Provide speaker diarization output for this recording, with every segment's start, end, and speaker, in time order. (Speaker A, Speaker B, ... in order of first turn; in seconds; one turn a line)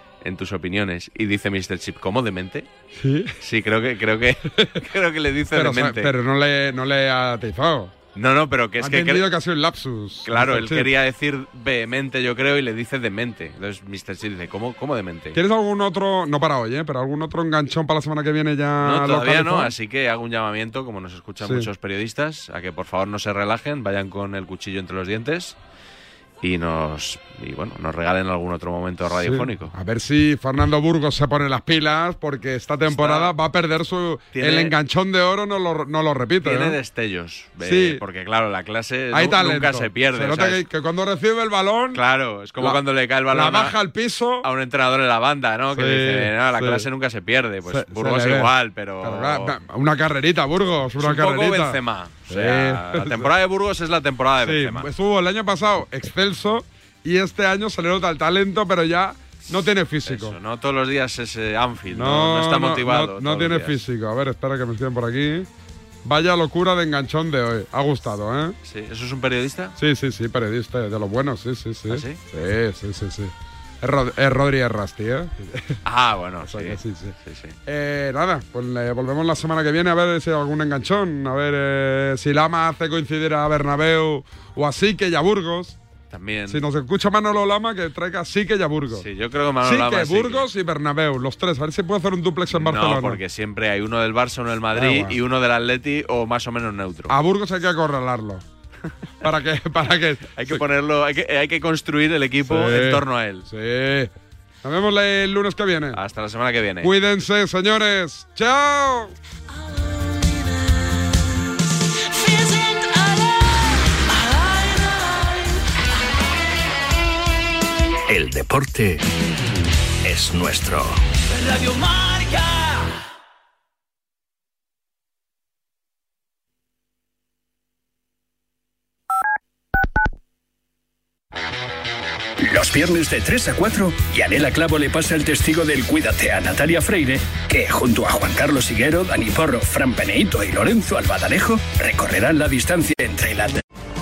Speaker A: 0.2-2.7
Speaker B: 2.9-3.4
Speaker A: 3.4-6.1
Speaker B: 5.5-7.9
Speaker A: 8.1-9.3
Speaker B: 8.8-10.9
Speaker A: 10.3-15.4
Speaker B: 15.3-19.7
Speaker A: 18.8-25.6
Speaker B: 21.4-21.7
Speaker A: 26.4-29.7
Speaker B: 29.2-36.8
Speaker A: 32.9-33.3
Speaker A: 34.3-34.7
Speaker A: 36.4-40.6
Speaker B: 37.6-38.0
Speaker B: 39.1-42.0
Speaker A: 41.9-43.7
Speaker B: 42.6-44.5
Speaker A: 44.4-49.5
Speaker B: 45.7-46.9
Speaker B: 47.7-53.3
Speaker A: 51.0-54.9
Speaker B: 54.4-60.4
Speaker A: 59.5-63.8
Speaker B: 61.9-65.5
Speaker B: 66.0-68.5
Speaker A: 68.6-69.7
Speaker B: 69.8-75.8
Speaker A: 71.9-72.2
Speaker A: 75.8-77.6
Speaker B: 76.4-77.1
Speaker B: 77.7-85.8
Speaker A: 86.1-86.6
Speaker B: 86.5-89.1
Speaker A: 88.9-90.5
Speaker B: 89.6-93.2
Speaker A: 92.5-97.2
Speaker B: 94.7-95.2
Speaker B: 97.1-98.4
Speaker B: 99.2-100.6
Speaker A: 100.4-103.5
Speaker B: 102.4-104.1
Speaker B: 104.6-106.0
Speaker A: 105.9-106.9
Speaker B: 106.8-109.1
Speaker C: 118.1-118.9
Speaker C: 120.1-120.7
Speaker C: 132.4-143.6